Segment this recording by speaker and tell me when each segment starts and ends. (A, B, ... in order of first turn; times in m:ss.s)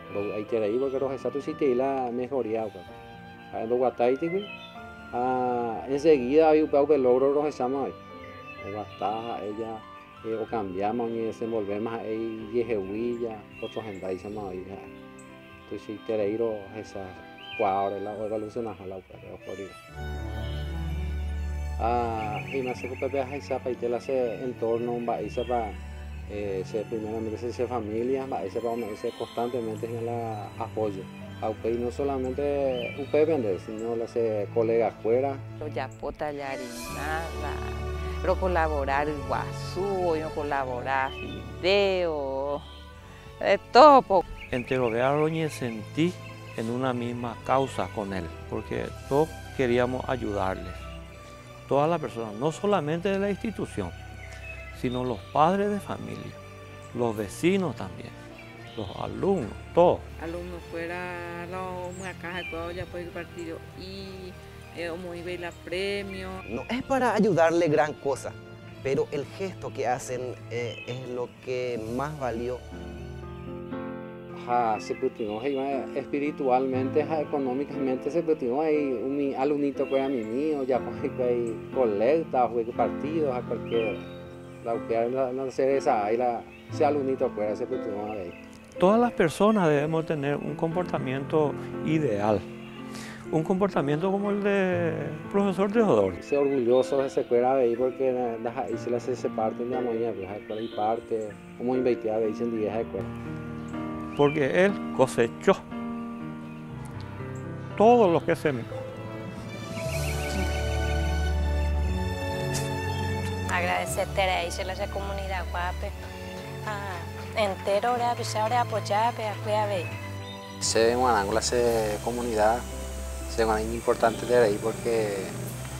0:00.1-0:02.9 A
0:03.5-0:04.5 A
0:05.1-0:08.0 A
0:08.6-0:14.9 A
0:15.7-0:19.8 A
0:21.8-0:35.4 A
0:35.6-0:42.6 B
0:43.4-0:44.2 B
0:44.5-0:50.8 C
0:51.6-0:54.0 C
0:54.7-0:56.4 C
0:56.9-0:58.1 C
0:58.8-1:00.0 C
1:00.2-1:06.4 D
1:06.4-1:12.6 E
1:14.3-1:24.1 A
1:24.6-1:28.4 A
1:28.8-1:32.4 C
1:33.3-1:36.2 C
1:36.2-1:43.1 A
1:44.1-1:45.6 C
1:47.8-1:48.8 C
1:53.5-1:55.9 F
1:56.7-1:59.9 F
2:00.6-2:02.6 A
2:03.3-2:05.4 A